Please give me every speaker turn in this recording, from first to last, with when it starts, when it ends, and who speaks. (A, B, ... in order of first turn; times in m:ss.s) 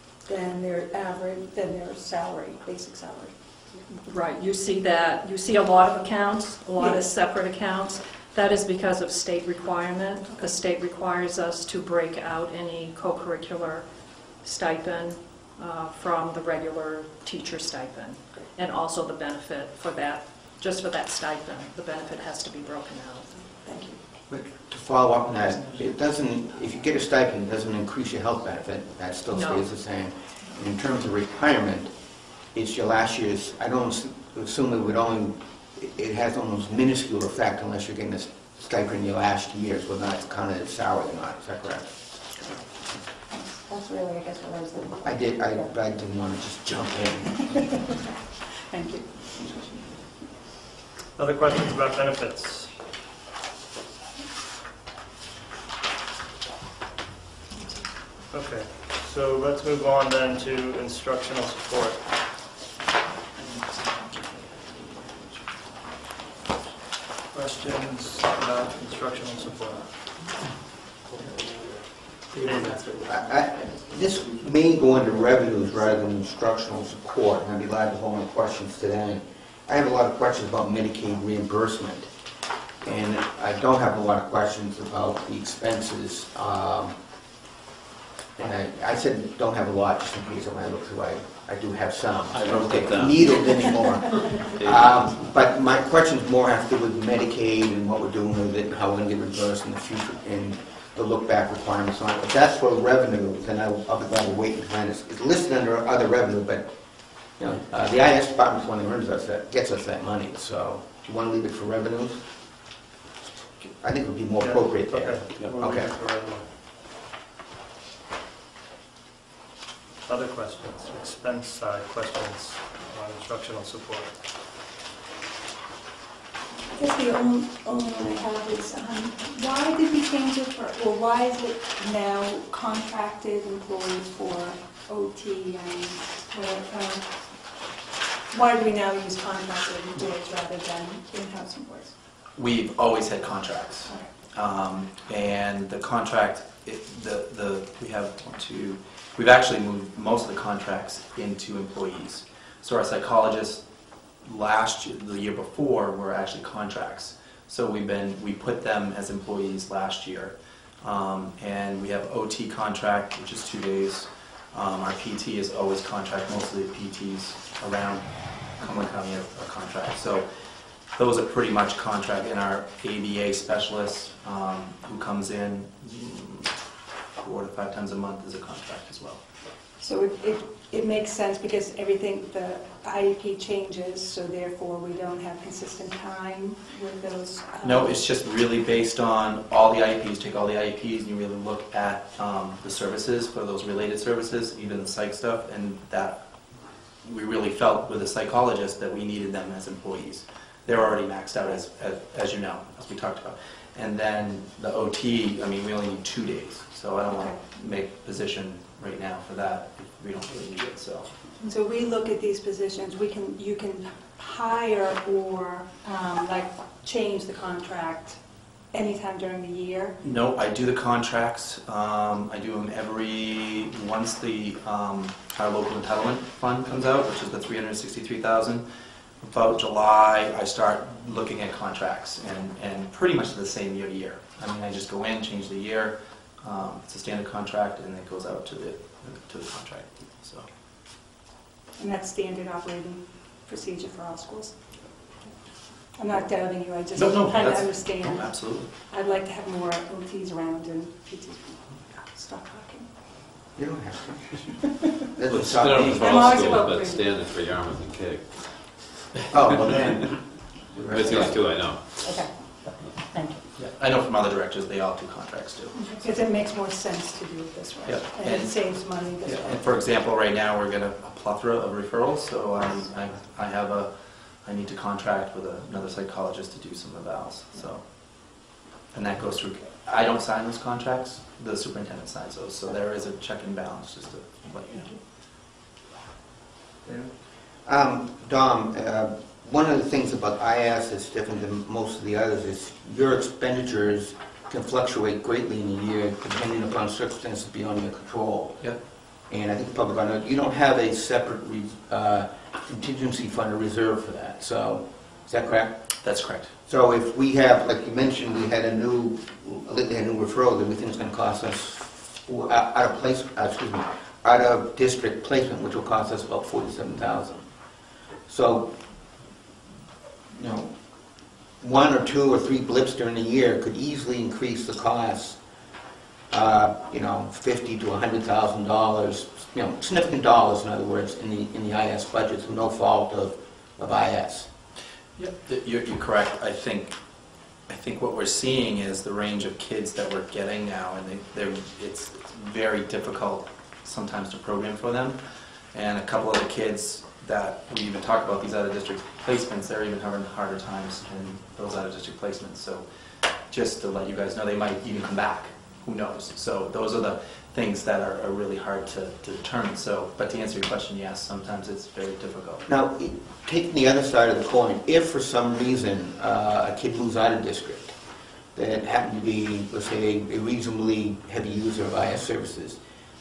0:00.2-0:03.7 A
0:03.9-0:23.5 B
0:06.8-0:07.1 A
0:23.4-0:24.0 A
0:24.3-0:31.9 C
0:29.3-0:29.7 B
0:32.5-0:42.0 C
0:43.3-0:45.7 A
0:45.0-0:47.5 C
0:47.4-0:48.1 A
0:48.7-0:49.8 A
0:51.2-0:52.7 D
0:57.6-0:57.9 A
0:58.3-1:02.1 D
1:07.3-1:10.1 D
1:12.3-1:12.9 E
1:12.4-1:12.7 D
1:13.0-1:22.1 C
1:22.8-1:27.0 C
1:28.4-1:46.7 C
1:32.3-1:35.1 F
1:47.3-1:52.2 C
1:53.8-1:55.9 C
1:54.4-1:56.5 D
2:00.0-2:04.2 D
2:06.7-2:17.2 A
2:18.3-2:21.9 A
2:22.4-2:33.6 E
2:34.2-2:50.2 E
2:50.9-2:56.5 E
2:57.2-2:59.2 E
2:59.8-3:08.0 A
3:07.6-3:16.2 E
3:17.0-3:31.1 E
3:27.1-3:27.4 A
3:31.4-3:38.2 A
3:38.7-3:40.0 A
3:40.0-3:48.6 E
3:49.2-4:00.4 E
4:01.8-4:04.6 A
4:05.9-4:12.9 A
4:06.9-4:08.7 E
4:13.6-4:16.3 C
4:15.3-4:19.0 F
4:16.0-4:17.0 A
4:19.3-4:21.4 C
4:20.9-4:22.9 F
4:22.0-4:22.3 A
4:23.1-4:23.4 A
4:23.6-4:26.2 E
4:25.8-4:29.6 A
4:27.8-4:33.9 E
4:34.4-4:45.0 E
4:47.6-4:58.7 C
4:59.3-5:05.8 C
5:06.0-5:06.5 E
5:06.7-5:17.5 C
5:18.3-5:18.7 C
5:20.3-5:20.7 C
5:21.6-5:25.4 C
5:26.3-5:34.5 C
5:35.2-5:37.0 E
5:37.7-5:45.2 E
5:45.7-5:52.8 E
5:53.5-6:02.6 E
6:02.7-6:07.9 C
6:08.5-6:12.8 C